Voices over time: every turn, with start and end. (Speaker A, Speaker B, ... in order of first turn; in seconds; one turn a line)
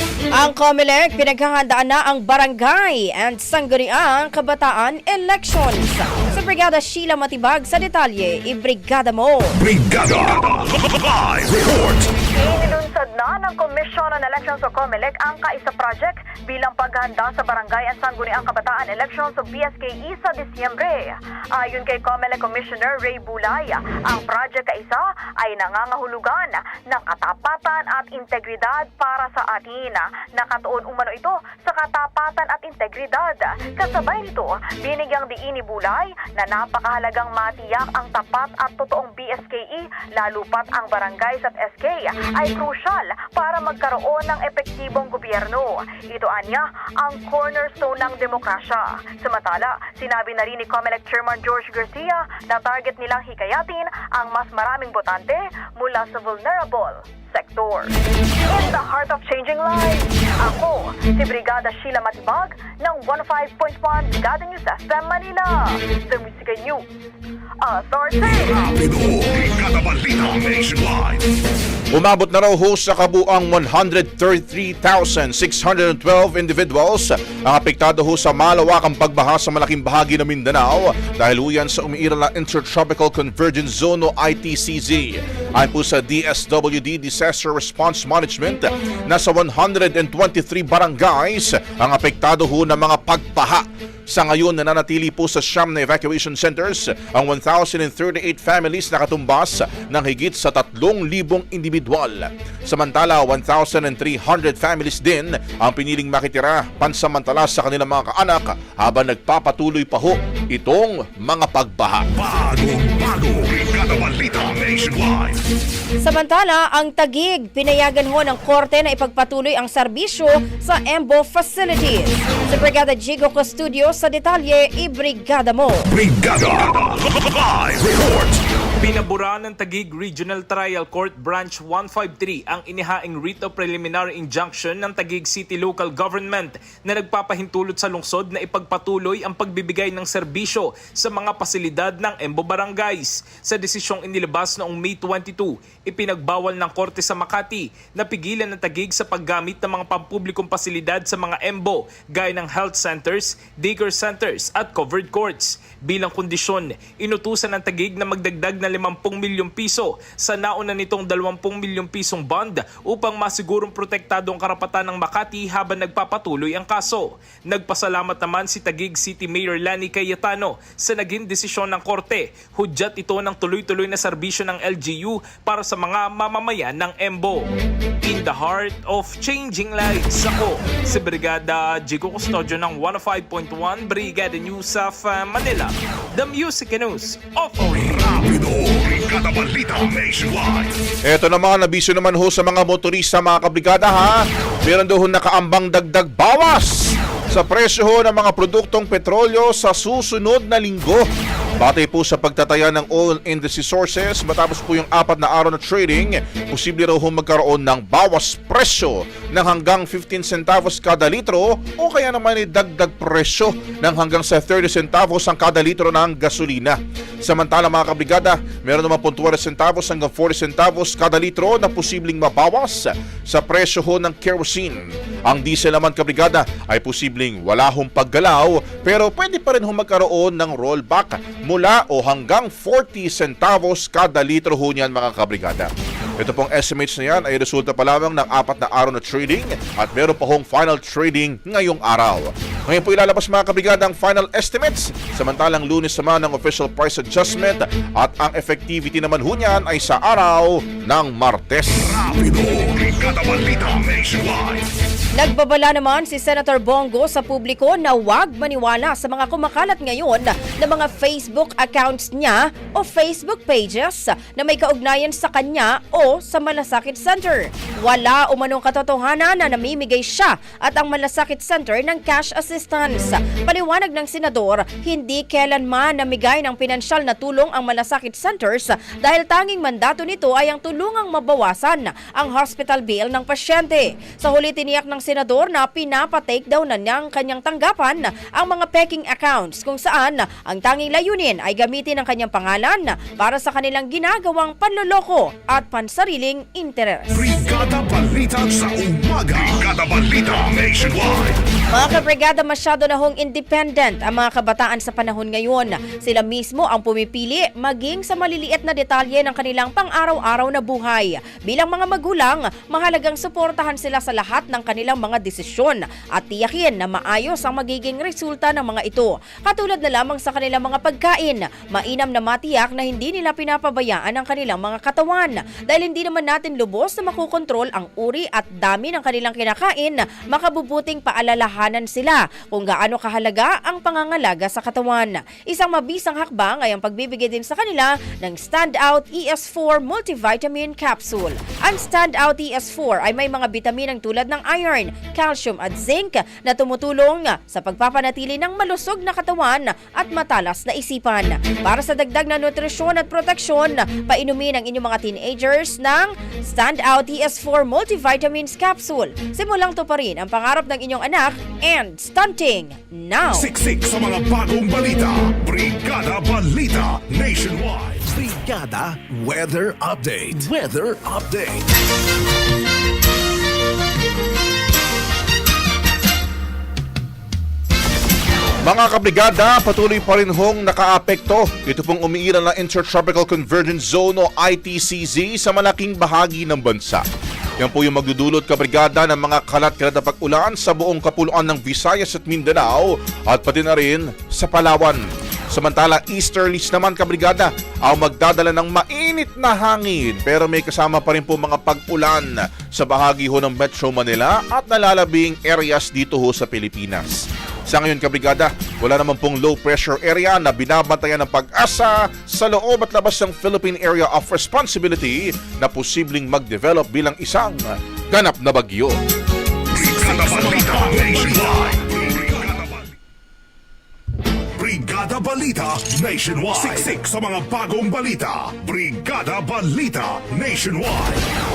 Speaker A: 0.3-9.6
Speaker B: 9.6-12.1
Speaker C: 12.3-57.9
Speaker C: 58.5-66.8
Speaker C: 67.6-68.8
Speaker B: 68.2-71.3
Speaker D: 71.9-112.1
Speaker B: 112.1-115.4
Speaker A: 116.0-125.9
Speaker B: 125.9-128.4
Speaker E: 128.8-177.5
Speaker E: 178.0-188.2
Speaker B: 187.8-190.7
Speaker D: 191.1-201.0
Speaker D: 201.6-252.0
Speaker B: 251.8-254.7
Speaker A: 255.2-297.3
Speaker B: 297.1-301.4
Speaker A: 301.7-363.5
Speaker B: 363.3-368.1
Speaker F: 368.1-371.6
Speaker D: 378.6-387.0
Speaker D: 387.6-418.9
Speaker B: 419.7-422.9
Speaker B: 424.6-431.2